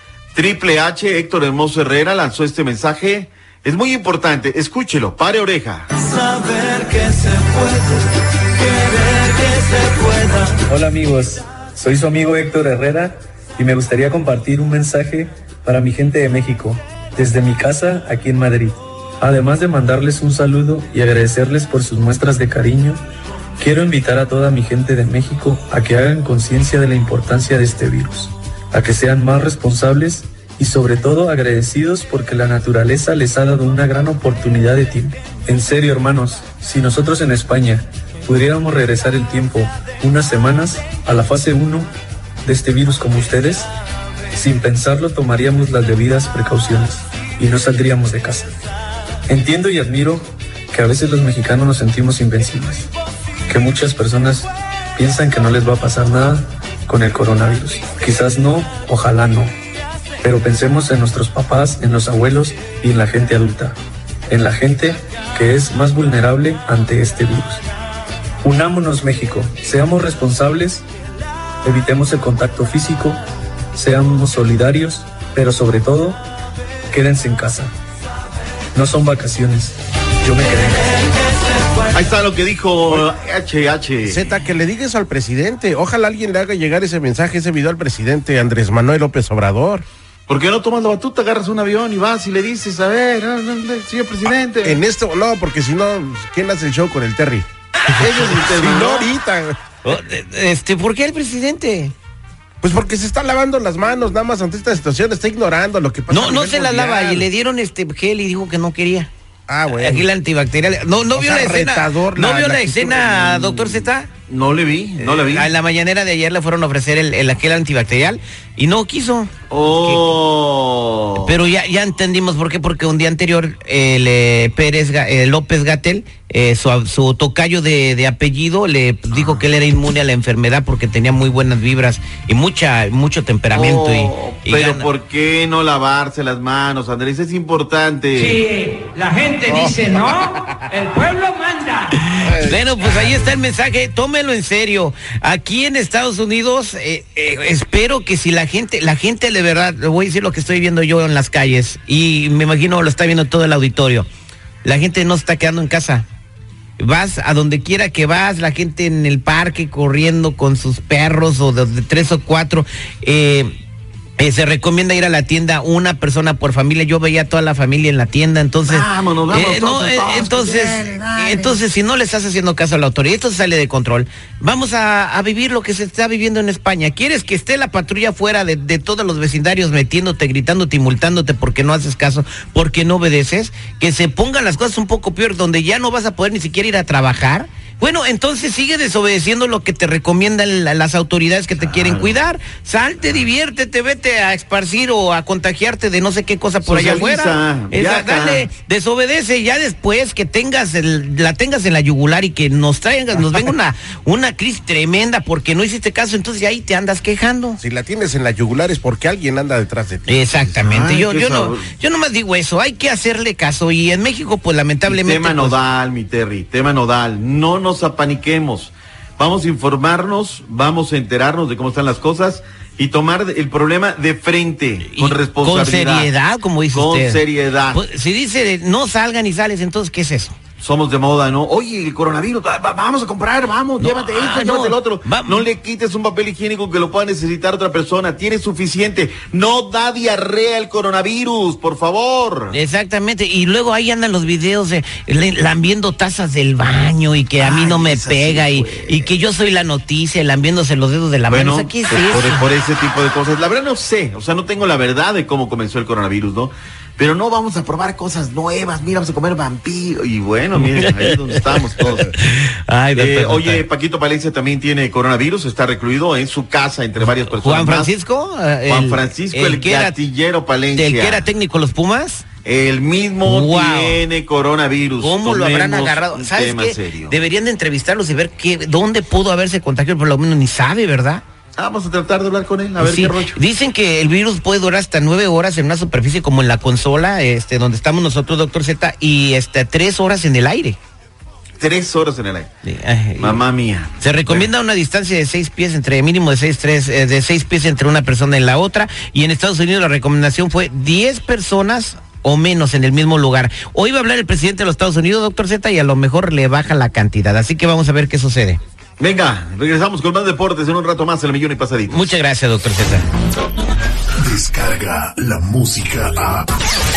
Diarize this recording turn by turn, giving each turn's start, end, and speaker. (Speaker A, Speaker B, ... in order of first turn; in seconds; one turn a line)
Speaker A: 0.3-5.9
Speaker B: 6.1-8.0
Speaker B: 8.8-10.1
Speaker C: 10.6-23.0
Speaker C: 23.6-41.9
Speaker C: 42.4-43.7
Speaker C: 44.3-48.5
Speaker C: 49.3-52.9
Speaker C: 53.5-59.5
Speaker C: 60.2-63.7
Speaker C: 64.3-67.6
Speaker C: 68.4-70.8
Speaker C: 71.6-73.2
Speaker C: 73.7-76.2
Speaker C: 76.9-77.7
Speaker C: 78.7-81.1
Speaker A: 81.9-84.3
Speaker D: 84.0-89.8
Speaker A: 90.3-94.8
Speaker D: 94.6-97.5
Speaker A: 98.0-99.1
Speaker D: 98.0-99.5
Speaker E: 99.8-101.9
Speaker D: 102.6-107.3
Speaker E: 106.1-109.1
Speaker D: 109.5-110.1
Speaker E: 109.7-114.1
Speaker D: 111.1-113.1
Speaker A: 113.1-115.5
Speaker E: 115.0-120.0
Speaker A: 119.5-121.3
Speaker E: 121.2-134.9
Speaker A: 133.5-138.4
Speaker B: 138.2-141.8
Speaker D: 139.5-139.9
Speaker E: 139.6-140.0
Speaker E: 142.1-154.1
Speaker D: 142.2-142.6
Speaker E: 154.6-156.1
Speaker E: 156.8-163.6
Speaker E: 164.2-207.6
Speaker A: 168.7-171.5
Speaker A: 191.6-192.2
Speaker A: 193.0-193.3
Speaker A: 196.6-198.5
Speaker D: 207.6-210.3
Speaker E: 210.1-215.6
Speaker A: 210.5-211.7
Speaker A: 214.8-226.1
Speaker E: 224.9-230.3
Speaker A: 226.7-227.8
Speaker A: 230.6-242.5
Speaker E: 233.8-235.4
Speaker E: 242.5-252.4
Speaker A: 247.4-249.0
Speaker A: 251.3-262.1
Speaker E: 260.6-263.6
Speaker A: 262.9-267.9
Speaker E: 267.0-269.9
Speaker A: 268.6-271.2
Speaker E: 270.7-272.2
Speaker A: 272.4-277.1
Speaker E: 273.2-274.0
Speaker E: 275.0-281.2
Speaker A: 281.6-283.4
Speaker E: 282.8-290.8
Speaker A: 291.6-292.5
Speaker E: 292.6-293.4
Speaker A: 293.2-294.5
Speaker E: 294.0-308.6
Speaker A: 309.0-312.1
Speaker E: 311.9-313.1
Speaker F: 314.2-316.5